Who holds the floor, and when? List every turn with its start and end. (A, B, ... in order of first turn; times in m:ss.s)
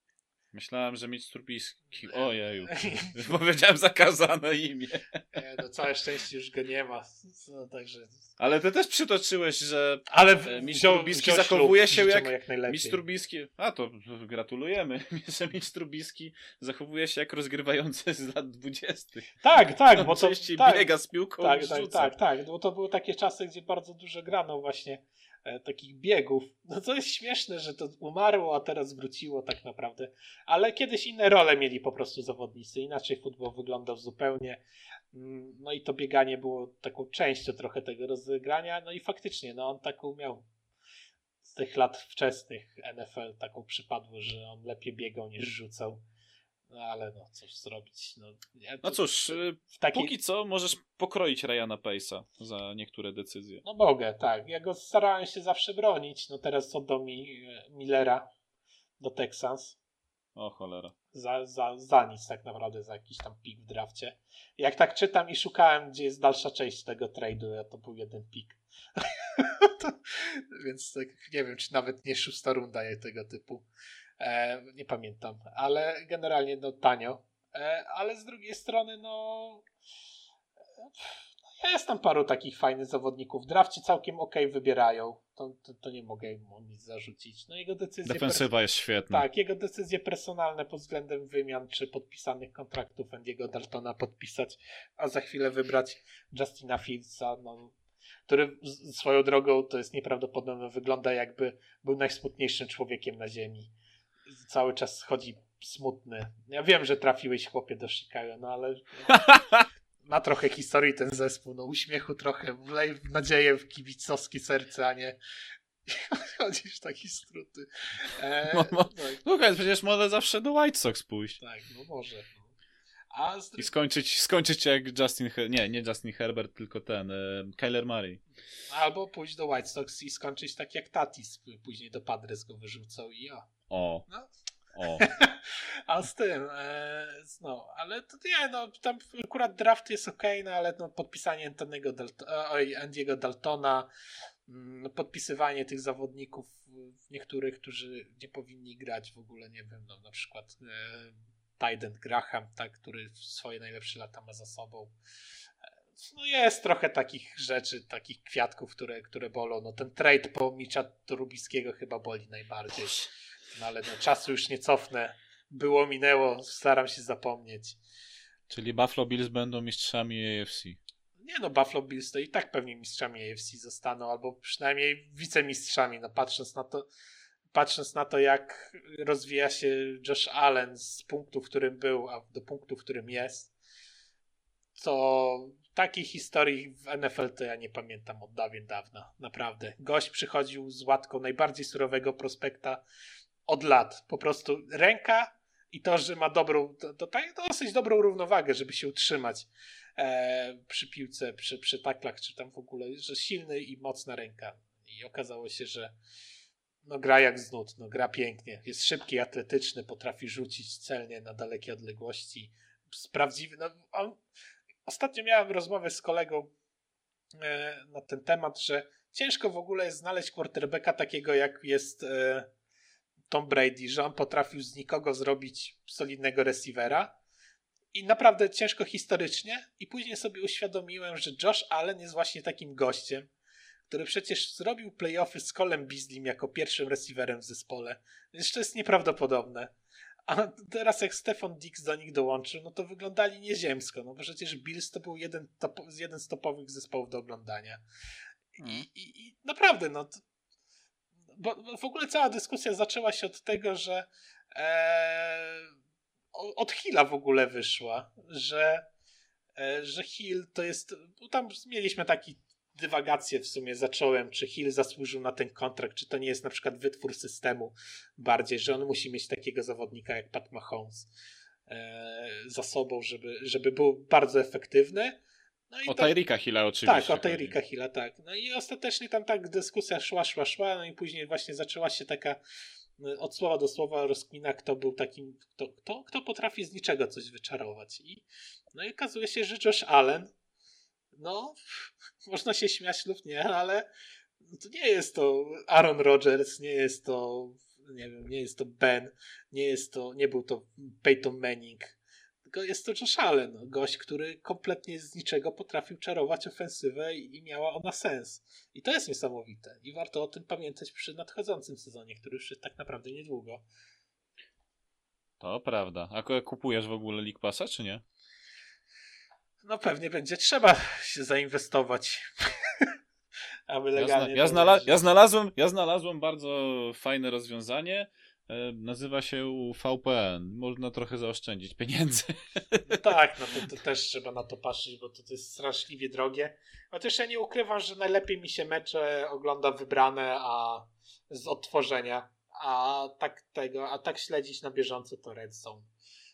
0:00.5-0:05.2 A
0:02.1-0:03.1 B
0:05.3-0:08.2 B
0:08.4-0:19.3 A
0:10.1-0:13.0 B
0:19.4-0:20.9 B
0:20.0-0:22.1 A
0:21.4-0:40.4 B
0:41.4-0:46.0 B
0:46.7-0:50.1 B
0:48.8-0:53.6 A
0:53.6-0:58.3 B
0:59.0-0:59.8 B
1:00.4-1:00.9 A
1:01.1-1:13.6 B
1:14.2-1:19.7 B
1:20.8-1:28.5 B
1:28.0-1:29.2 A
1:29.1-1:37.7 B
1:38.3-1:43.7 B
1:44.4-1:49.1 B
1:49.1-1:49.7 A
1:50.0-1:55.2 B
1:55.9-1:59.2 B
1:58.5-2:01.4 A
2:01.4-2:02.5 B
2:03.1-2:03.7 B
2:03.6-2:08.2 A
2:08.7-2:13.5 B
2:13.7-2:14.1 A
2:14.7-2:15.0 A
2:14.9-2:23.9 B
2:24.5-2:34.9 B
2:36.0-2:47.8 B
2:48.5-2:50.8 A
2:51.2-2:56.9 B
2:57.5-3:03.5 B
3:04.8-3:12.8 B
3:13.5-3:25.9 B
3:26.8-3:34.2 B
3:34.8-3:36.5 B
3:37.4-3:42.5 B
3:43.3-3:47.1 B
3:47.9-3:53.3 B
3:53.9-3:59.7 B
4:00.3-4:07.8 B
4:08.6-4:10.2 B
4:08.6-4:08.9 A
4:11.4-4:15.7 B
4:16.3-4:18.8 B
4:19.6-4:31.1 B
4:31.7-4:36.1 B
4:35.9-4:37.6 A
4:36.8-4:42.4 B
4:43.0-4:50.3 B
4:51.2-4:53.8 B
4:54.5-5:13.6 B
5:15.4-5:18.0 A
5:19.6-5:22.9 B
5:23.7-5:24.9 B
5:24.0-5:33.0 A
5:32.9-5:45.9 B